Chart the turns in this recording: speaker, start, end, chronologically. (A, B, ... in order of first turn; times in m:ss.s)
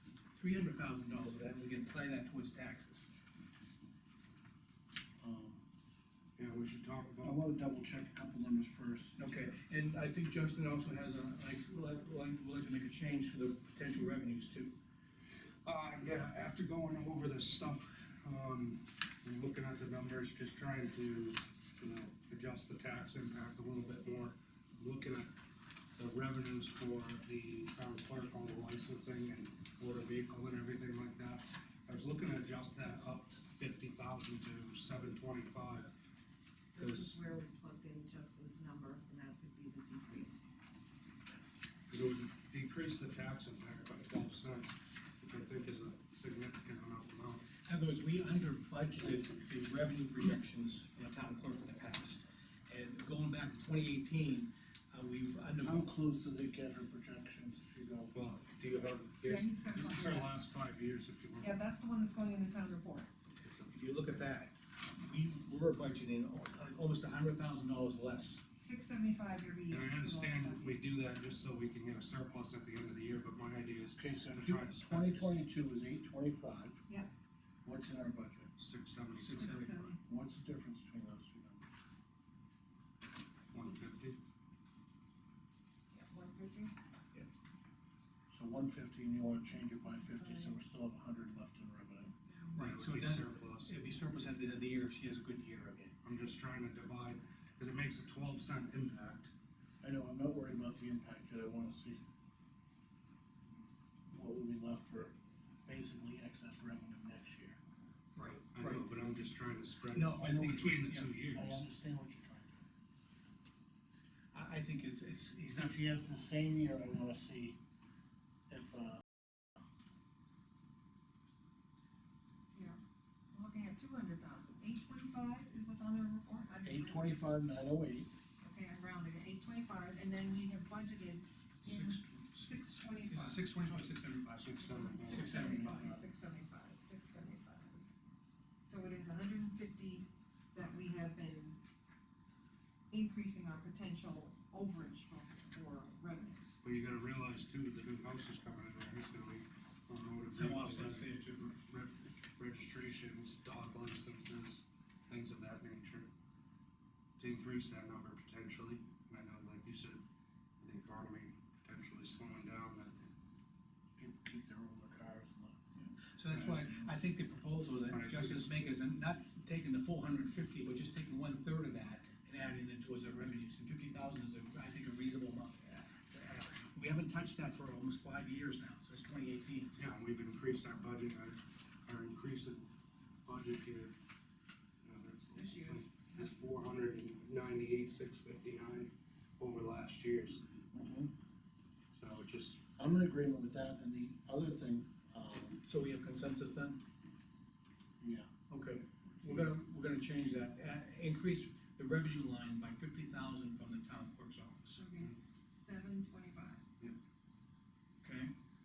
0:00.3-0:03.1 A
0:05.2-0:05.6 B
0:06.4-0:07.4 C
0:07.2-0:09.2 B
0:09.2-0:14.7 A
0:15.6-0:25.3 C
0:26.0-0:35.9 C
0:36.8-0:37.2 C
0:36.8-0:40.4 D
0:41.9-0:47.5 C
0:47.6-0:55.9 A
0:55.6-0:58.1 B
0:58.1-1:01.6 C
0:59.2-1:00.3 D
1:01.4-1:03.1 D
1:03.7-1:08.4 A
1:08.6-1:10.8 D
1:09.7-1:15.4 C
1:14.0-1:16.8 B
1:17.6-1:18.5 B
1:18.6-1:19.8 C
1:19.1-1:19.9 A
1:19.3-1:20.0 D
1:20.1-1:21.6 B
1:23.5-1:24.2 C
1:25.9-1:26.7 D
1:28.3-1:32.1 B
1:30.0-1:30.5 D
1:32.1-1:32.7 D
1:32.6-1:33.7 C
1:32.6-1:35.9 A
1:36.0-1:39.3 C
1:39.8-1:42.0 B
1:44.1-1:45.1 B
1:45.7-1:47.6 B
1:48.2-1:48.8 A
1:48.5-1:51.6 C
1:49.9-1:51.3 A
1:50.2-1:50.7 B
1:51.3-1:52.5 B
1:54.3-1:55.8 A
1:55.6-1:57.6 B
1:58.5-1:59.0 B
2:02.5-2:02.8 D
2:03.3-2:07.2 D
2:06.6-2:08.1 B
2:08.4-2:13.4 D
2:11.6-2:12.5 A
2:13.1-2:15.9 A
2:14.4-2:15.7 C
2:14.6-2:17.9 D
2:15.3-2:16.0 B
2:18.6-2:21.6 D
2:22.9-2:26.6 D
2:26.6-2:36.1 C
2:30.3-2:31.6 A
2:37.2-2:40.0 C
2:40.6-2:43.0 C
2:44.0-2:46.9 B
2:46.2-2:59.7 A
2:47.9-2:48.5 C
2:59.8-3:02.7 C
3:03.2-3:03.9 C
3:04.8-3:10.4 C
3:05.3-3:06.3 D
3:10.7-3:11.1 B
3:11.9-3:12.6 C
3:12.8-3:15.6 B
3:15.6-3:16.8 A
3:18.0-3:18.3 B
3:18.5-3:24.8 A
3:24.7-3:26.6 D
3:28.0-3:28.3 A